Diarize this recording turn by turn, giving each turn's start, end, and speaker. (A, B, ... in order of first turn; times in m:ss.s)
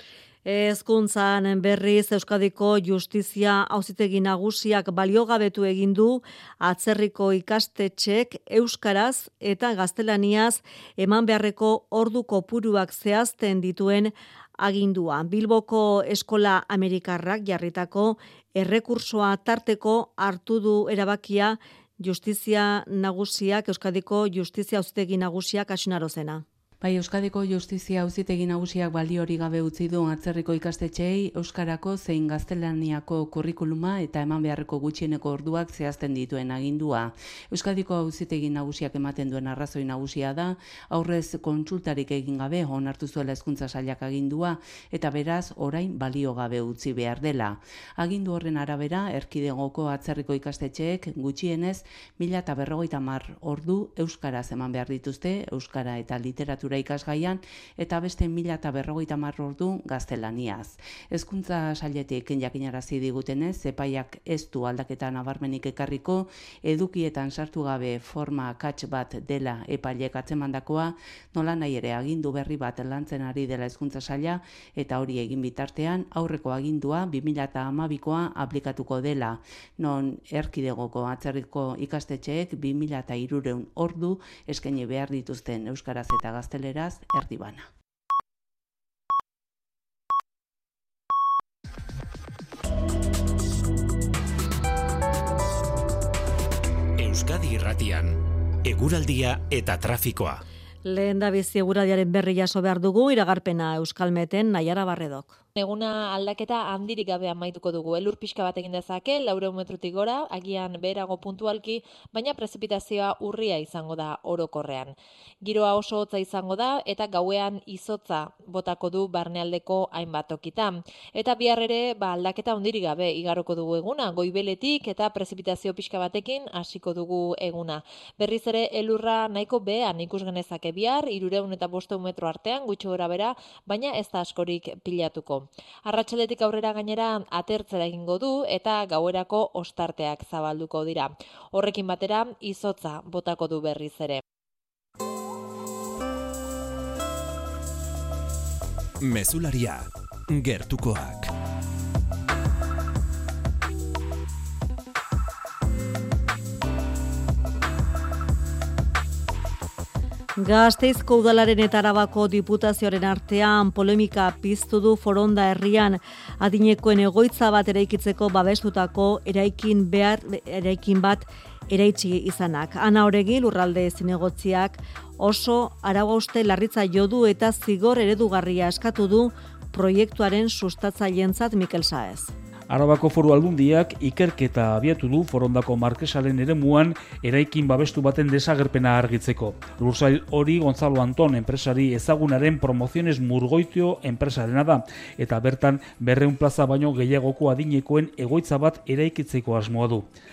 0:00.4-0:26.4 A
0:26.8-1:27.7 B
1:37.0-1:40.4 C
1:40.8-1:45.4 A
1:45.6-2:24.2 D
2:29.0-2:31.3 C
2:40.4-3:02.3 A
3:02.7-3:20.1 E